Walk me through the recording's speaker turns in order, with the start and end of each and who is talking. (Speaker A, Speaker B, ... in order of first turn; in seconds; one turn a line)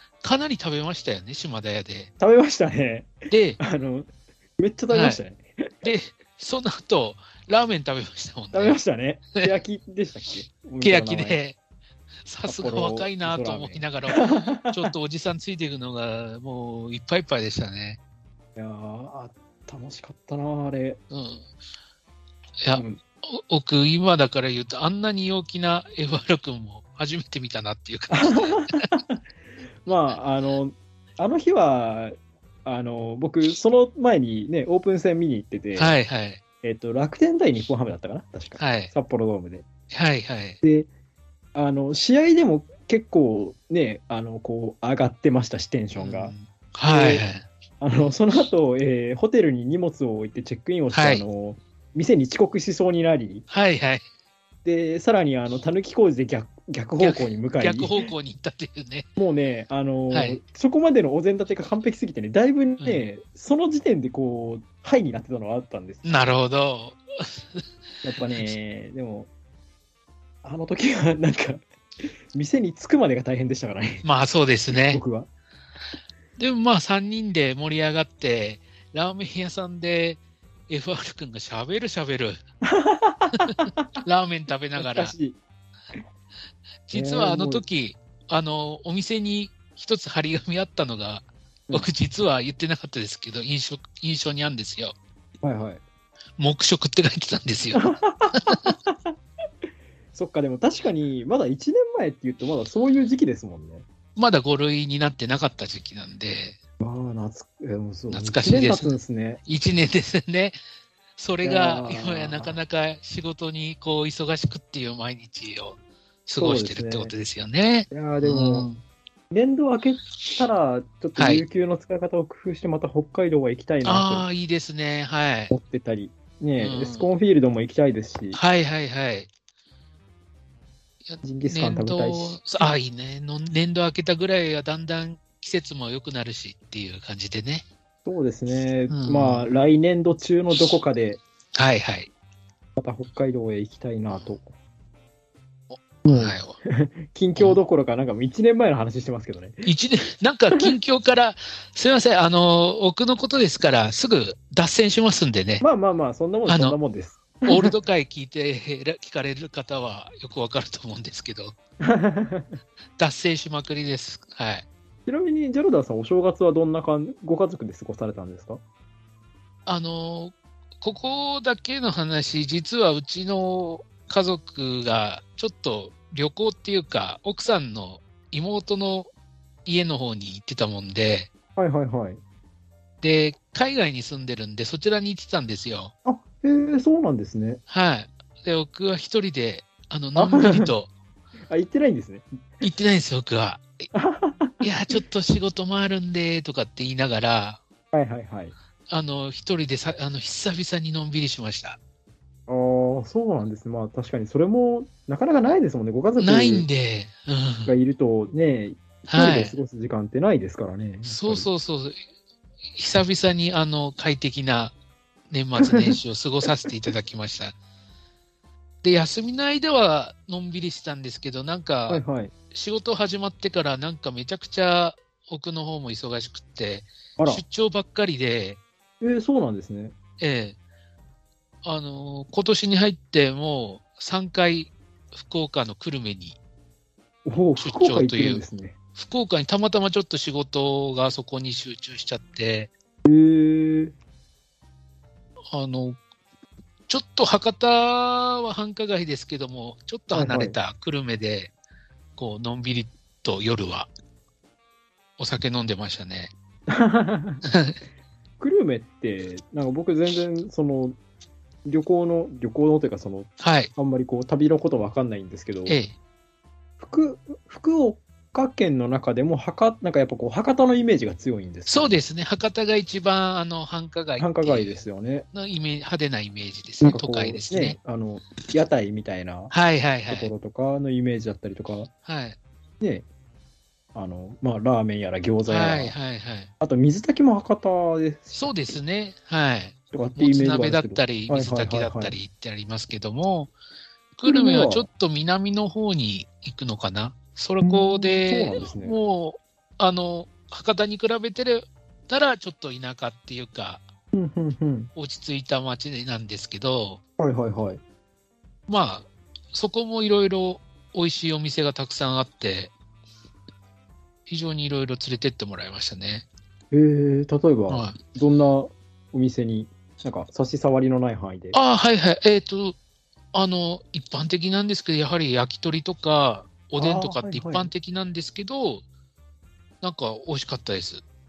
Speaker A: 0.2-2.1
Speaker B: 2.2-5.9
Speaker A: 3.3-3.6
Speaker A: 4.9-5.2
Speaker A: 5.8-8.8
Speaker B: 8.5-11.4
Speaker A: 10.8-11.6
Speaker A: 12.2-18.0
Speaker B: 12.5-14.9
Speaker B: 18.6-21.0
Speaker A: 21.1-21.4
Speaker A: 22.6-28.9
Speaker B: 22.7-23.0
Speaker B: 28.1-29.2
Speaker B: 29.8-36.0
Speaker A: 35.8-36.4
Speaker B: 36.6-39.6
Speaker A: 38.6-38.9
Speaker A: 39.9-40.6
Speaker B: 40.6-40.9
Speaker B: 41.5-46.3
Speaker A: 46.0-47.5
Speaker B: 46.8-47.2
Speaker B: 47.8-53.4
Speaker A: 50.9-51.2
Speaker A: 53.5-54.0
Speaker B: 54.6-58.0
Speaker A: 57.0-59.1
Speaker B: 59.2-66.0
Speaker A: 60.1-60.4
Speaker A: 62.8-63.1
Speaker A: 66.0-67.6
Speaker B: 68.0-69.3
Speaker B: 70.4-74.0
Speaker A: 74.0-75.0
Speaker B: 74.7-75.3
Speaker A: 76.4-82.4
Speaker B: 82.6-83.7
Speaker A: 83.3-85.1
Speaker B: 84.8-85.4
Speaker A: 86.9-94.9
Speaker B: 86.9-87.6
Speaker B: 95.4-95.8
Speaker A: 96.4-98.7
Speaker B: 97.7-99.1
Speaker B: 100.1-103.8
Speaker A: 104.2-106.6
Speaker B: 106.8-109.4
Speaker A: 108.1-110.6
Speaker A: 111.2-118.8
Speaker B: 111.4-112.6
Speaker B: 116.4-117.1
Speaker B: 117.9-118.7
Speaker B: 119.3-124.2
Speaker A: 121.2-121.4
Speaker A: 123.8-125.5
Speaker B: 125.5-128.4
Speaker A: 126.6-127.1
Speaker A: 128.3-129.3
Speaker A: 131.0-137.6
Speaker B: 131.2-132.8
Speaker B: 138.0-141.2
Speaker A: 138.9-139.5
Speaker A: 141.5-142.1
Speaker B: 142.8-144.4
Speaker A: 145.7-146.6
Speaker B: 146.0-149.7
Speaker A: 147.3-147.6
Speaker A: 149.7-155.6
Speaker B: 155.6-157.7
Speaker A: 156.5-156.8
Speaker A: 157.4-161.6
Speaker B: 161.8-162.5
Speaker A: 163.0-164.6
Speaker B: 165.1-168.6
Speaker A: 169.7-179.1
Speaker A: 179.6-181.3
Speaker B: 181.6-182.2
Speaker A: 183.0-185.9
Speaker B: 186.0-187.6
Speaker A: 187.7-190.9
Speaker B: 190.1-190.7
Speaker B: 191.5-192.3
Speaker A: 192.6-193.9
Speaker B: 193.9-194.7
Speaker A: 194.6-197.6
Speaker B: 197.9-198.5
Speaker A: 198.9-201.8
Speaker B: 202.5-206.7
Speaker A: 206.2-207.7
Speaker B: 207.7-211.5
Speaker A: 209.1-209.6
Speaker A: 211.0-212.0
Speaker A: 212.8-214.7
Speaker A: 215.3-217.6
Speaker B: 215.6-216.0
Speaker A: 218.8-228.6
Speaker B: 221.9-222.3
Speaker B: 227.2-227.4
Speaker B: 229.0-229.9
Speaker A: 230.2-230.6
Speaker A: 231.6-236.4
Speaker B: 237.2-238.7
Speaker A: 237.6-242.7
Speaker B: 243.0-243.9
Speaker A: 245.5-246.0
Speaker A: 246.9-251.5
Speaker B: 250.1-250.6
Speaker A: 252.2-253.9
Speaker A: 255.2-256.3
Speaker B: 256.7-257.4
Speaker A: 257.4-257.8
Speaker B: 258.4-261.0
Speaker B: 261.6-265.8
Speaker A: 263.4-263.7
Speaker A: 265.6-265.9
Speaker B: 266.8-272.0
Speaker A: 271.7-274.8
Speaker B: 274.2-275.2
Speaker A: 275.3-277.8
Speaker B: 276.8-279.5
Speaker A: 279.5-280.3
Speaker B: 280.1-281.9
Speaker A: 282.0-282.4
Speaker B: 283.9-285.9
Speaker A: 285.5-286.5
Speaker B: 286.6-288.5
Speaker A: 288.3-293.5
Speaker B: 289.9-292.1
Speaker A: 294.2-303.8
Speaker B: 294.2-294.9
Speaker B: 297.6-298.9
Speaker B: 304.1-304.9
Speaker A: 304.9-307.0
Speaker B: 307.2-307.8
Speaker A: 308.7-312.7
Speaker A: 314.3-316.2
Speaker B: 316.7-321.6
Speaker A: 317.7-318.0
Speaker A: 321.5-322.8
Speaker A: 323.3-328.8
Speaker B: 326.8-327.7
Speaker A: 329.8-331.0